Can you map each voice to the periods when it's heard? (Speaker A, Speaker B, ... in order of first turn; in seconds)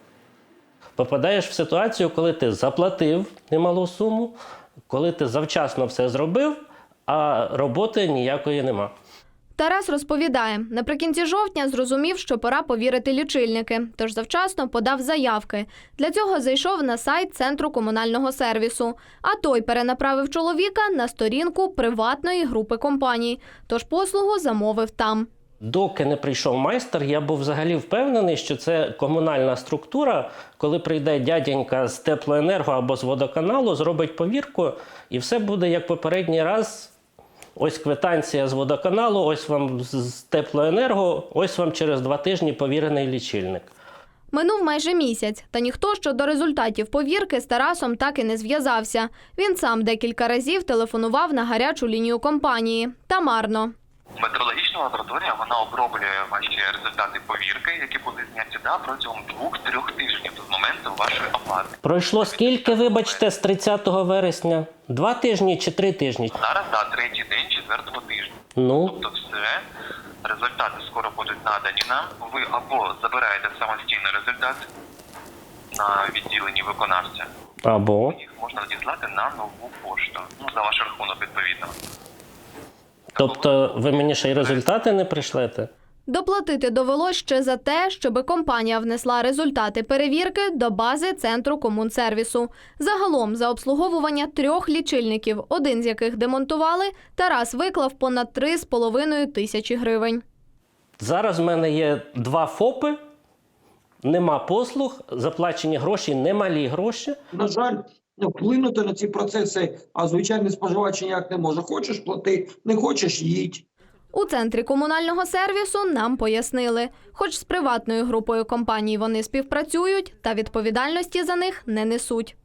Speaker A: 1.0-4.3, 4.9-6.5, 7.1-8.9, 25.6-36.9, 37.5-43.7, 61.8-66.3, 68.5-69.0, 77.6-78.2, 83.2-85.7, 101.0-103.0, 104.0-107.2
Speaker B: 9.6-25.3, 44.3-53.7, 86.1-100.2, 114.1-122.3
Speaker C: 54.2-63.2, 66.3-69.6, 70.2-74.6, 75.7-77.3, 78.0-81.7, 83.2-84.6
Speaker D: 107.3-113.7